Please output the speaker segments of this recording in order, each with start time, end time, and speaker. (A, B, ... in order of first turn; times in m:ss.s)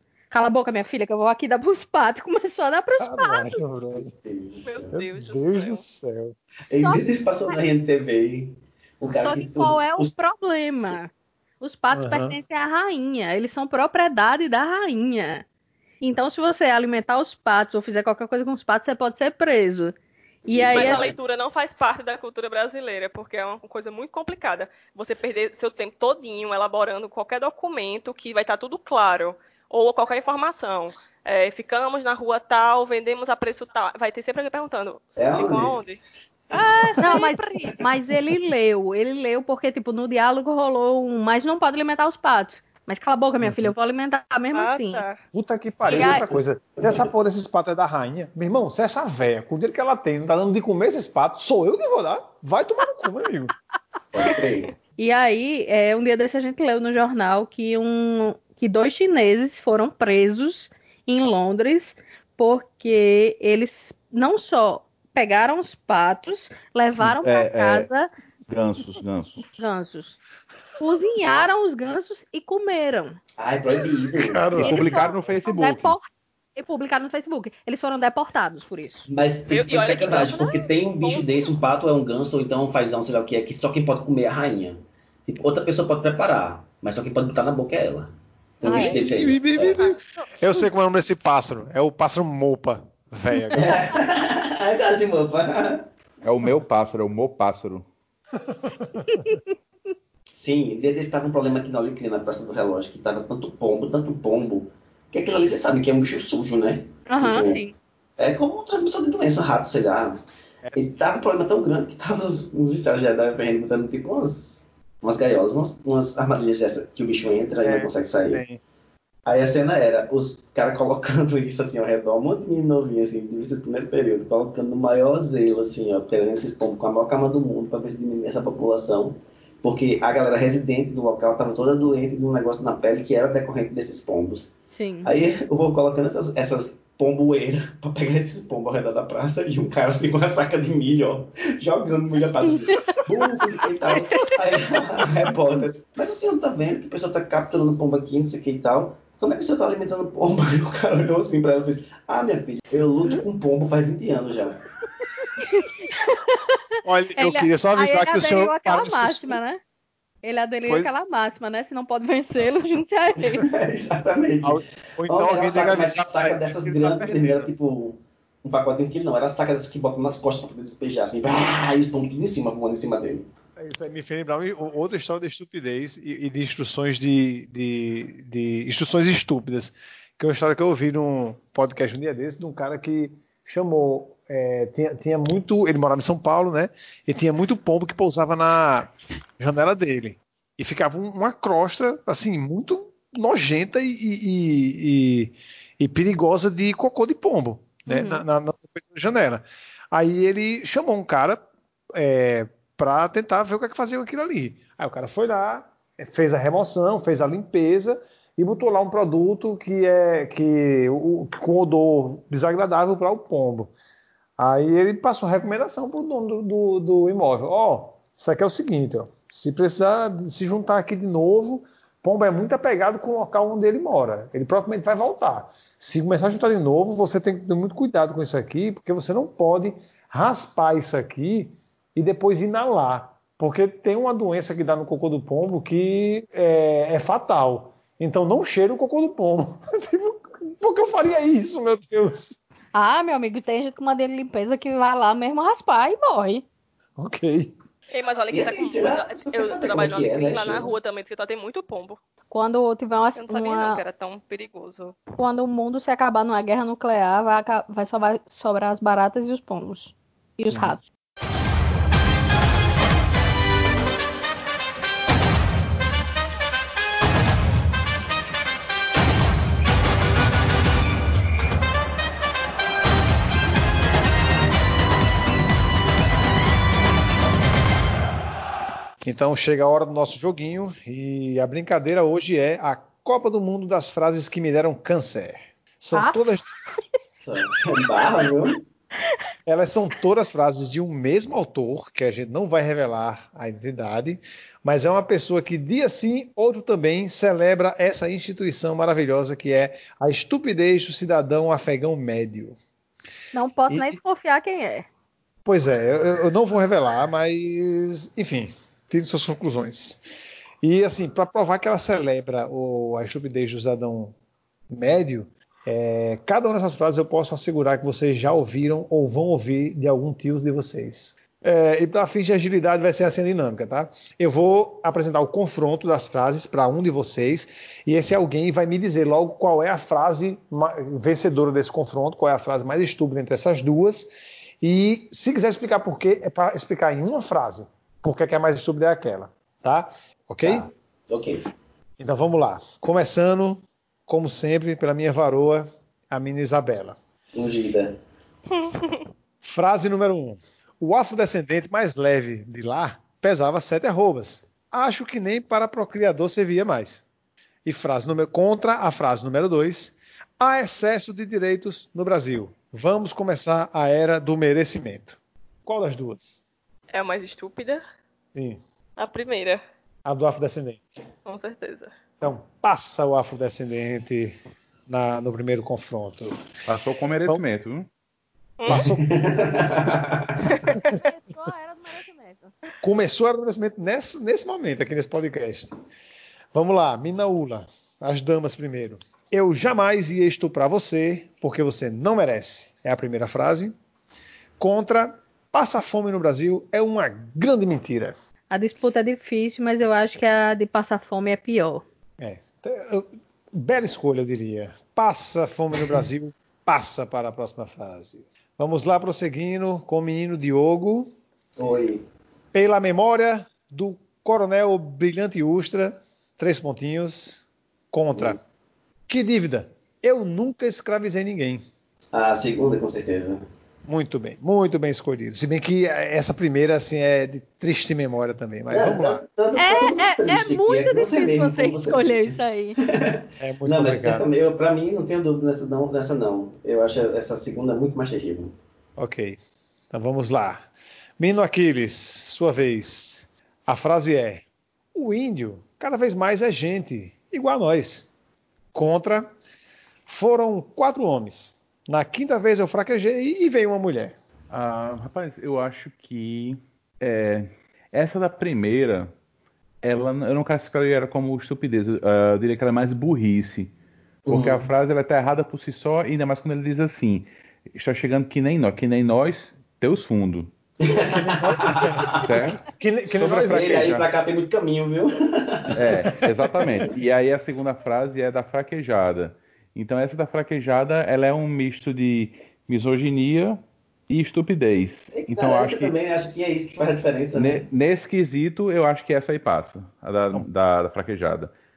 0:00.3-0:03.6 A
0:03.0-0:04.1 B
0:04.2-0:04.9 C
0:04.6-0:05.8 D
0:04.9-0:06.4 B
0:06.7-0:10.1 C
0:06.7-0:07.5 A
0:09.2-0:11.1 A
0:11.6-0:15.4 A
0:11.9-0:12.4 B
0:16.0-0:19.9 A
0:20.5-0:21.1 A
0:20.5-0:21.2 C
0:20.7-0:36.0 D
0:35.2-0:35.7 C
0:36.5-0:37.1 C
0:36.5-0:37.4 D
0:37.0-0:45.0 A
0:44.5-0:45.2 D
0:45.3-0:53.5 B
0:45.8-0:47.1 C
0:45.9-0:46.2 A
0:54.1-0:54.7 C
0:55.0-1:08.1 A
1:07.1-1:07.9 E
1:08.5-1:09.5 E
1:09.6-1:10.2 A
1:10.8-1:13.2 A
1:13.4-1:14.7 C
1:14.2-1:14.9 B
1:14.6-1:19.1 A
1:14.6-1:15.9 E
1:19.1-1:29.8 C
1:19.5-1:21.5 D
1:28.6-1:29.0 A
1:28.7-1:33.9 B
1:33.5-1:35.8 C
1:36.2-1:37.8 E
1:38.5-1:39.3 B
1:39.1-1:39.4 A
1:40.4-1:47.6 C
1:47.1-1:47.8 A
1:48.2-1:50.2 C
1:50.6-1:51.0 B
1:50.8-1:58.4 C
1:57.6-1:58.6 B
1:59.2-2:14.5 C
2:14.8-2:15.1 A
2:15.0-2:34.6 C
2:22.7-2:23.0 A
2:35.4-2:36.6 A
2:36.8-2:39.4 B
2:37.2-2:39.6 A
2:40.2-2:43.4 A
2:43.4-2:53.3 C
2:44.4-2:47.5 B
2:53.6-3:21.4 B
3:17.9-3:18.2 A
3:21.9-3:33.7 B
3:34.4-4:02.4 B
4:02.8-4:06.4 A
4:07.0-4:07.5 B
4:07.9-4:12.0 D
4:08.3-4:10.7 C
4:12.3-4:13.8 A
4:13.2-4:15.0 D
4:15.2-4:20.8 A
4:20.4-4:20.8 B
4:39.0-4:46.5 B
4:45.9-4:46.2 A
4:47.2-4:48.6 C
4:49.5-5:02.6 B
5:03.3-5:04.8 A
5:03.7-5:04.0 C
5:05.4-5:10.0 B
5:10.6-5:14.1 B
5:14.7-5:34.1 B
5:34.6-5:40.6 B
5:40.4-5:41.5 C
5:42.0-5:47.0 B
5:47.3-5:48.0 C
5:48.5-5:49.0 D
5:49.4-5:57.0 B
5:57.6-6:06.4 B
6:06.9-6:07.8 D
6:08.4-6:08.6 B
6:09.0-6:09.6 D
6:10.0-6:10.8 B
6:11.2-6:11.9 D
6:12.2-6:16.4 B
6:16.6-6:17.9 E
6:18.6-6:18.9 D
6:18.7-6:20.1 B
6:18.7-6:20.6 C
6:20.7-6:21.0 B
6:20.9-6:22.5 A
6:22.8-6:25.8 B
6:26.5-6:33.8 B
6:34.6-6:38.1 B
6:38.5-6:41.8 A
6:42.2-6:51.1 B
6:51.6-6:52.0 C
6:52.5-6:58.4 B
6:59.1-7:01.6 B
7:02.1-7:03.4 C
7:03.8-7:09.2 B
7:08.7-7:18.5 C
7:09.6-7:12.8 A
7:13.4-7:14.3 B
7:19.0-7:19.4 B
7:19.9-7:20.7 B
7:21.2-7:28.1 B
7:28.7-7:29.3 B
7:30.1-7:34.1 B
7:34.5-7:39.1 E
7:39.8-7:43.7 E
7:44.2-7:44.7 C
7:44.3-7:50.5 E
7:50.8-7:52.2 C
7:50.9-7:53.9 B
7:52.2-7:54.1 E
7:53.3-7:56.3 C
7:55.7-8:05.9 E
8:05.1-8:07.6 C
8:07.4-8:11.5 E